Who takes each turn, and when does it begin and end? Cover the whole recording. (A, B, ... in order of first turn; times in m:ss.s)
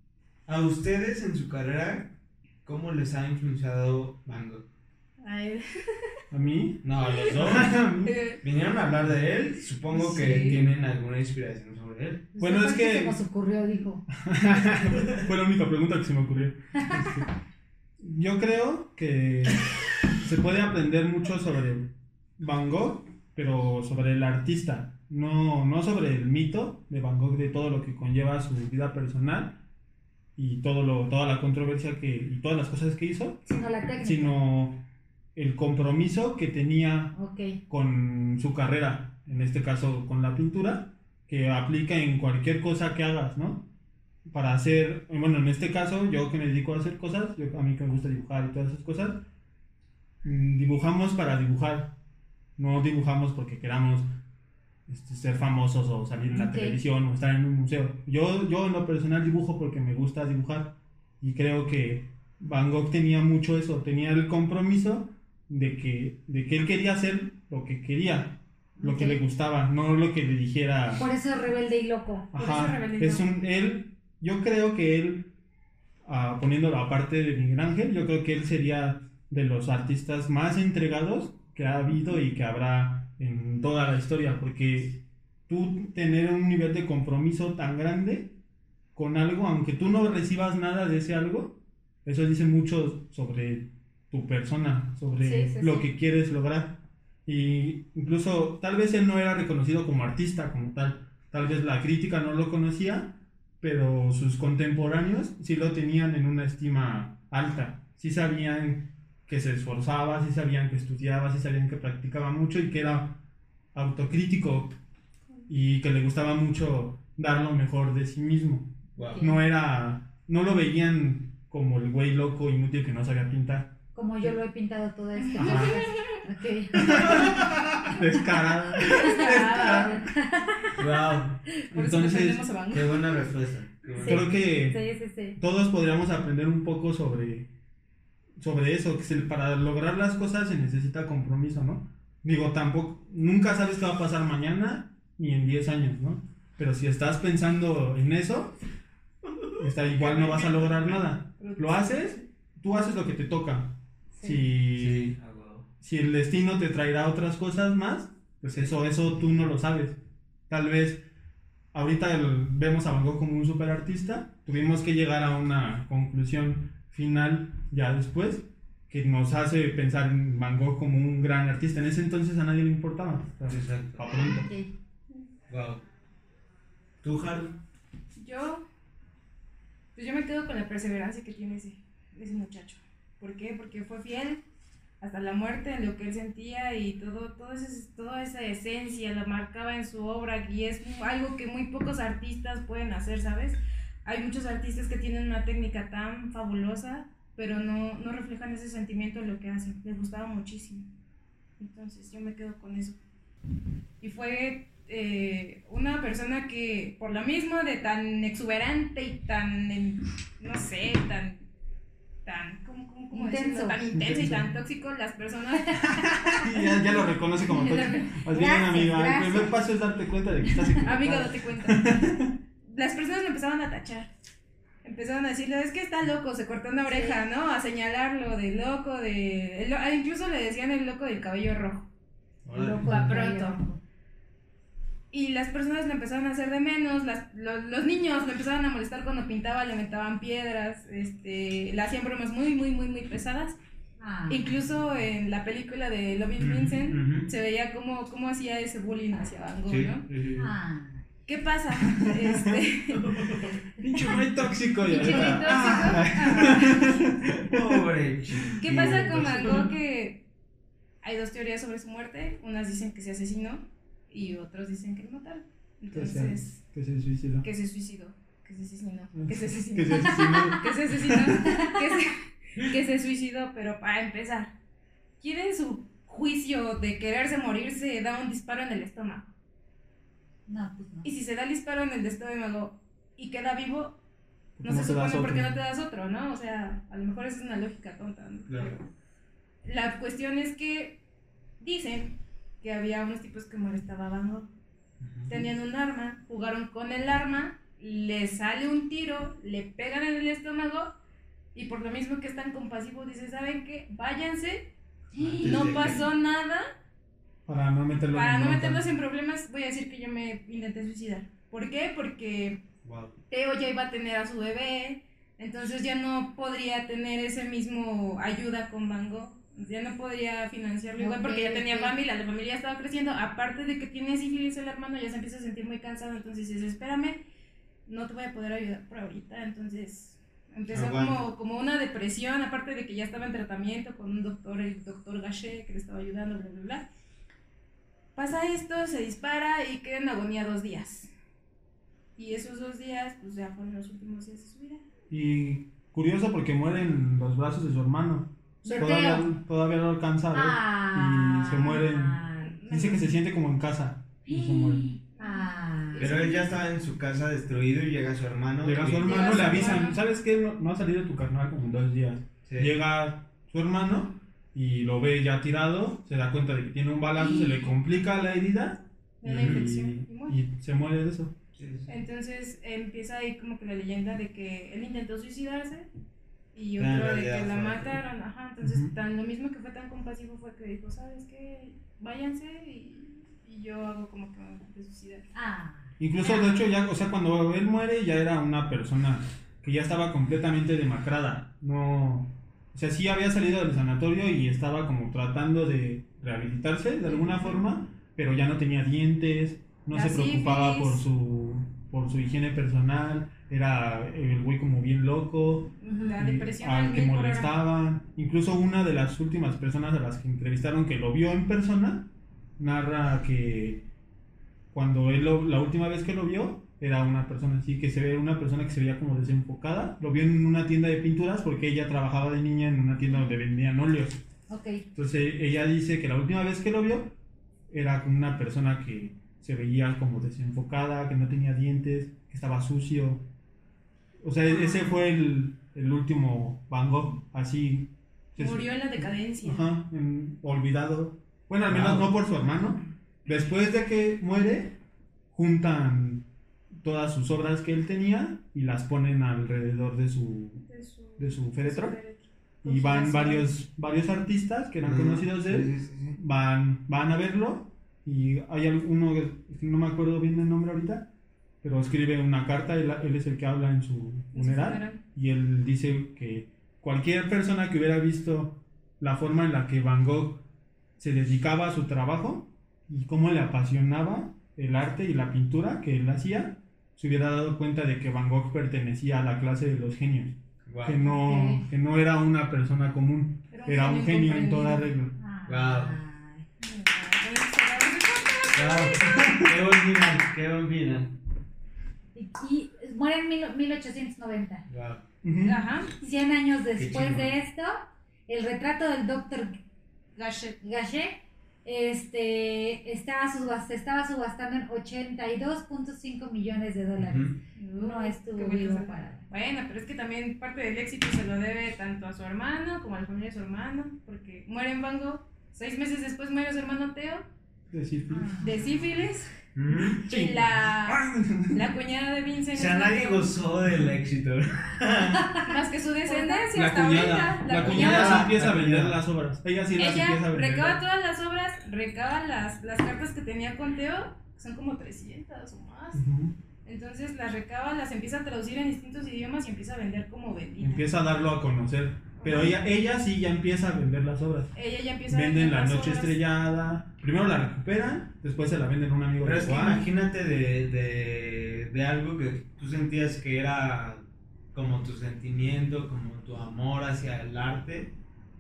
0:00.5-0:04.6 A
0:05.2-0:06.2 B
0:06.3-0:08.2 C
0:06.8-0:07.8 A
0:07.0-0:07.3 B
0:08.0-0:08.4 B
0:08.4-0:12.3 A
0:09.9-0:10.6 B
0:10.3-0:10.7 C
0:12.4-0:14.0 D
0:12.4-0:13.2 C
0:14.1-0:17.3 C
0:16.8-0:17.1 D
0:18.0-0:19.6 C
0:20.2-0:29.6 C
0:30.4-0:34.8 C
0:33.5-0:34.4 D
0:35.4-0:37.2 C
0:37.1-0:37.6 D
0:37.7-0:43.6 C
0:44.3-0:49.2 C
0:50.2-0:51.9 C
0:52.6-0:54.1 C
0:54.9-1:11.1 C
0:56.3-0:56.8 D
1:08.8-1:09.2 D
1:11.0-1:12.3 D
1:12.3-1:15.3 C
1:12.4-1:13.3 B
1:16.1-1:28.4 C
1:29.0-1:53.2 C
1:35.3-1:35.9 B
1:53.7-1:54.8 C
1:55.5-2:03.7 C
1:59.0-1:59.2 A
2:04.0-2:07.2 D
2:05.2-2:06.2 B
2:05.4-2:05.8 C
2:06.7-2:10.0 C
2:08.9-2:10.7 D
2:09.0-2:10.0 B
2:10.8-2:11.4 A
2:11.7-2:12.4 C
2:11.7-2:13.0 B
2:12.7-2:14.3 A
2:14.0-2:15.4 D
2:14.0-2:14.8 C
2:15.4-2:17.5 C
2:18.4-2:28.6 C
2:29.6-2:35.2 C
2:29.8-2:31.0 A
2:30.0-2:30.6 B
2:31.4-2:32.2 B
2:34.1-2:34.4 D
2:34.8-2:35.7 A
2:35.8-2:40.0 C
2:40.5-2:41.0 C
2:41.7-2:54.5 C
2:53.5-2:54.3 A
2:54.1-2:54.7 D
2:55.5-2:55.8 A
2:57.0-2:57.6 A
2:58.2-2:58.6 B
3:00.0-3:04.4 B
3:05.0-3:20.9 B
3:21.6-3:23.0 B
3:24.0-3:31.5 B
3:32.2-3:35.8 B
3:33.1-3:33.8 D
3:33.9-3:34.6 C
3:35.6-3:37.0 D
3:35.9-3:42.4 C
3:37.5-3:38.1 B
3:37.6-3:39.6 D
3:40.8-3:42.0 B
3:42.7-3:44.1 B
3:44.8-3:51.9 B
3:46.9-3:47.2 D
3:52.4-3:53.3 A
3:52.5-3:53.8 D
3:52.7-3:53.6 B
3:55.1-4:03.6 B
4:04.0-4:04.4 D
4:04.3-4:10.1 B
4:06.4-4:07.3 A
4:09.7-4:10.5 A
4:10.4-4:11.0 D
4:11.3-4:13.2 B
4:11.9-4:12.6 C
4:12.9-4:14.1 A
4:13.8-4:17.6 C
4:13.9-4:14.3 B
4:14.9-4:17.0 B
4:15.0-4:15.4 D
4:15.4-4:16.1 A
4:17.4-4:19.7 A
4:18.6-4:20.2 B
4:19.1-4:19.7 C
4:21.0-4:26.6 B
4:25.9-4:27.5 C
4:27.4-4:34.5 B
4:29.2-4:31.5 C
4:30.0-4:30.5 D
4:35.2-4:39.3 B
4:40.5-4:41.1 D
4:41.0-4:44.0 B
4:44.6-4:45.6 C
4:44.6-4:48.8 B
4:48.5-4:48.8 A
4:49.6-4:51.0 B
4:51.6-4:54.5 B
4:55.0-4:55.4 A
4:55.3-5:00.9 B
5:01.5-5:04.7 B
5:05.1-5:06.0 D
5:05.2-5:06.0 A
5:05.4-5:06.6 B
5:07.4-5:08.8 C
5:08.0-5:12.6 B
5:12.8-5:13.1 A
5:13.3-5:27.2 B
5:21.0-5:21.9 D
5:27.9-5:36.9 B
5:30.7-5:31.2 A
5:38.2-5:41.1 B
5:42.2-5:44.9 B
5:45.1-5:54.9 C
5:48.6-5:49.0 B
5:48.6-5:49.3 D
5:50.3-5:52.6 D
5:52.4-5:53.1 B
5:54.3-5:56.4 D
5:55.2-5:56.5 B
5:56.0-5:59.4 A
5:58.6-6:11.3 C
5:59.0-6:00.0 B
5:59.2-5:59.9 D
6:02.4-6:02.7 A
6:09.2-6:10.4 B
6:09.2-6:09.7 A
6:11.6-6:12.0 A
6:11.9-6:15.9 B
6:16.5-6:25.3 B
6:16.8-6:18.0 A
6:18.6-6:18.9 C
6:25.3-6:26.4 D
6:26.0-6:53.8 C
6:39.9-6:41.0 B
6:45.8-6:47.5 B
6:54.7-7:04.2 C
7:04.5-7:04.8 D
7:05.0-7:07.2 C
7:07.7-7:13.2 C
7:14.2-7:24.8 C
7:14.4-7:15.0 D
7:18.4-7:19.6 B
7:21.7-7:22.1 A
7:25.3-7:26.3 C
7:26.8-7:32.0 C
7:30.7-7:33.5 B
7:32.6-7:41.1 C
7:34.8-7:36.2 A
7:41.6-7:50.4 C
7:44.3-7:45.0 B
7:51.0-8:05.2 C
8:00.7-8:01.0 A
8:01.0-8:01.6 D
8:03.5-8:04.9 B
8:05.2-8:06.4 D
8:05.5-8:06.0 A
8:06.6-8:09.5 B
8:08.5-8:11.2 A
8:12.2-8:14.6 D
8:14.7-8:15.0 A
8:15.2-8:15.6 C
8:15.4-8:16.0 B
8:16.0-8:19.6 D
8:16.8-8:17.3 A
8:20.2-8:20.6 B
8:20.6-8:29.2 D
8:27.0-8:27.4 A
8:27.6-8:37.2 B
8:37.7-8:38.4 C
8:38.1-8:38.7 D
8:38.4-8:39.3 B
8:39.6-8:40.1 A
8:40.0-8:41.6 C
8:40.0-8:43.3 B
8:42.5-8:45.4 A
8:45.4-8:48.4 B
8:46.1-8:46.4 D
8:46.6-8:50.8 C
8:47.5-8:49.0 A
8:49.8-8:56.0 B
8:55.9-8:56.4 C
8:56.6-9:00.9 B
9:00.6-9:04.5 C
9:02.2-9:02.6 B
9:04.6-9:06.2 B
9:05.1-9:09.8 C
9:09.2-9:18.0 A